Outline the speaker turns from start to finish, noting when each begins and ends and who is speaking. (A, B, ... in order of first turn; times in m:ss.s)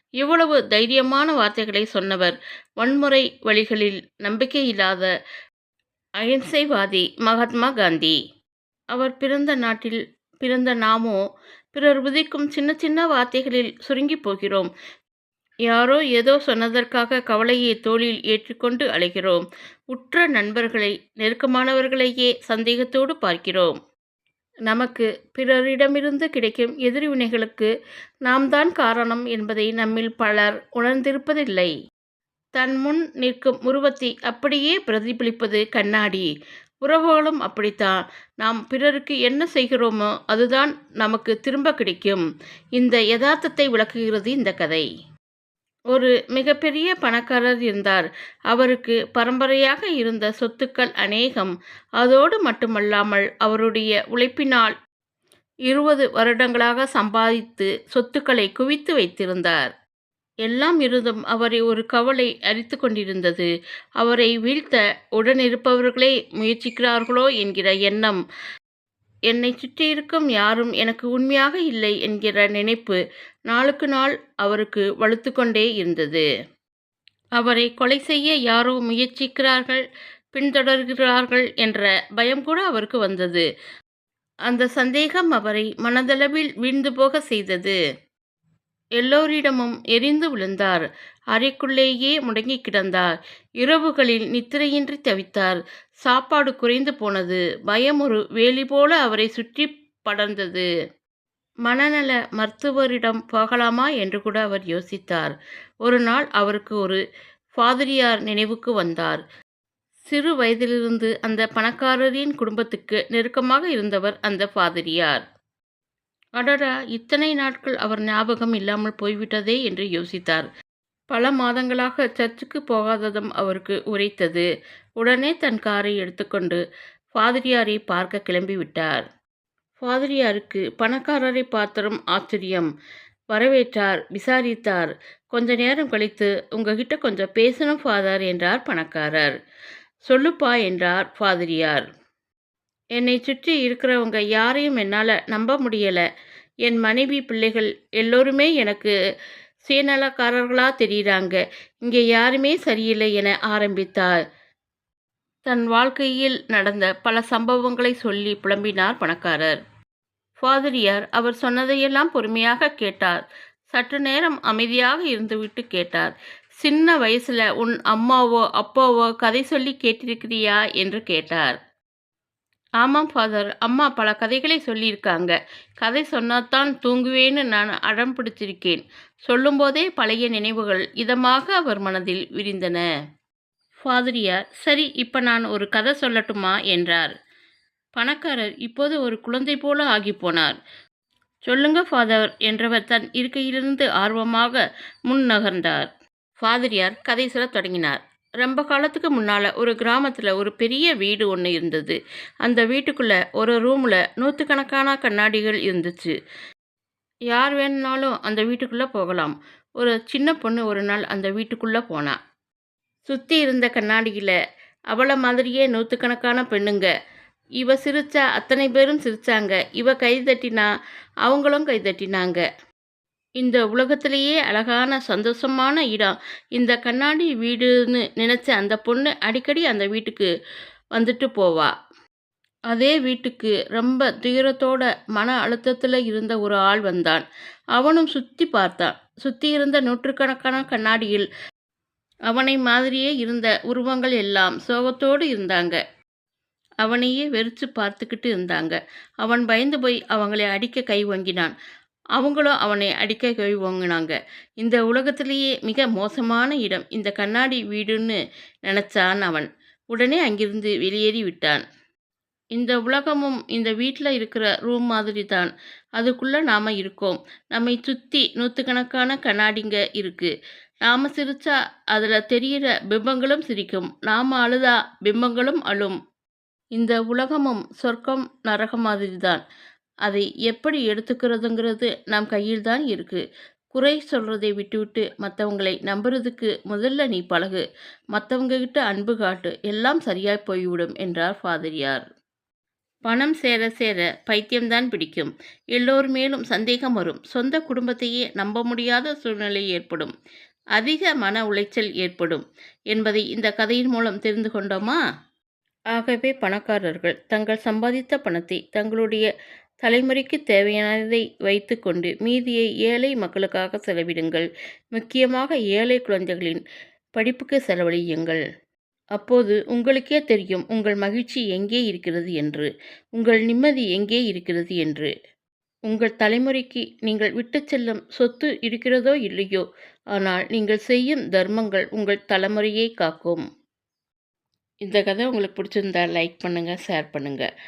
0:00.2-0:05.1 A
0:06.2-0:08.2 A
0:08.9-0:11.2 A
0:11.7-0:14.7 A
0:15.7-0:23.8 A
0:24.7-0:27.7 A
0:28.2-0:31.7 A
0:32.6-0:36.3 A
0:36.8-0:42.2 A
0:42.8-0:44.9 A
0:45.9-0:54.7 A
0:55.7-0:59.7 A
1:00.4-1:08.2 A
1:09.3-1:16.2 A
1:17.4-1:19.8 A
1:20.3-1:23.4 A
1:24.5-1:27.8 A
1:29.0-1:33.1 A
1:33.6-1:40.7 A
1:41.6-1:47.0 A
1:47.6-1:49.2 A
1:50.1-1:55.2 A
1:56.4-2:00.5 A
2:01.1-2:04.5 A
2:05.0-2:06.6 A
2:07.2-2:09.0 A
2:09.8-2:12.7 A
2:13.3-2:19.3 A
2:20.1-2:21.8 A
2:23.0-2:26.0 A
2:26.6-2:28.9 A
2:29.6-2:34.1 A
2:35.5-2:39.6 A
2:40.4-2:43.2 A
2:43.7-2:51.6 A
2:52.8-3:02.8 A
3:03.8-3:07.1 A
3:08.0-3:10.6 A
3:11.5-3:26.1 A
3:27.3-3:32.2 A
3:33.1-3:34.4 A
3:34.9-3:36.9 A
3:37.6-3:40.7 A
3:41.2-3:42.4 A
3:43.4-3:50.3 A
3:51.0-3:51.7 A
3:52.7-3:57.2 A
3:57.8-4:01.3 A
4:02.3-4:05.8 A
4:06.8-4:11.5 A
4:12.2-4:21.6 A
4:22.5-4:30.3 A
4:30.8-4:36.0 A
4:36.8-4:39.4 A
4:40.0-4:52.0 A
4:53.1-5:00.1 A
5:00.8-5:05.0 A
5:05.9-5:09.3 A
5:09.8-5:16.6 A
5:17.2-5:18.4 A
5:19.2-5:25.1 A
5:25.9-5:33.4 A
5:34.8-5:37.5 A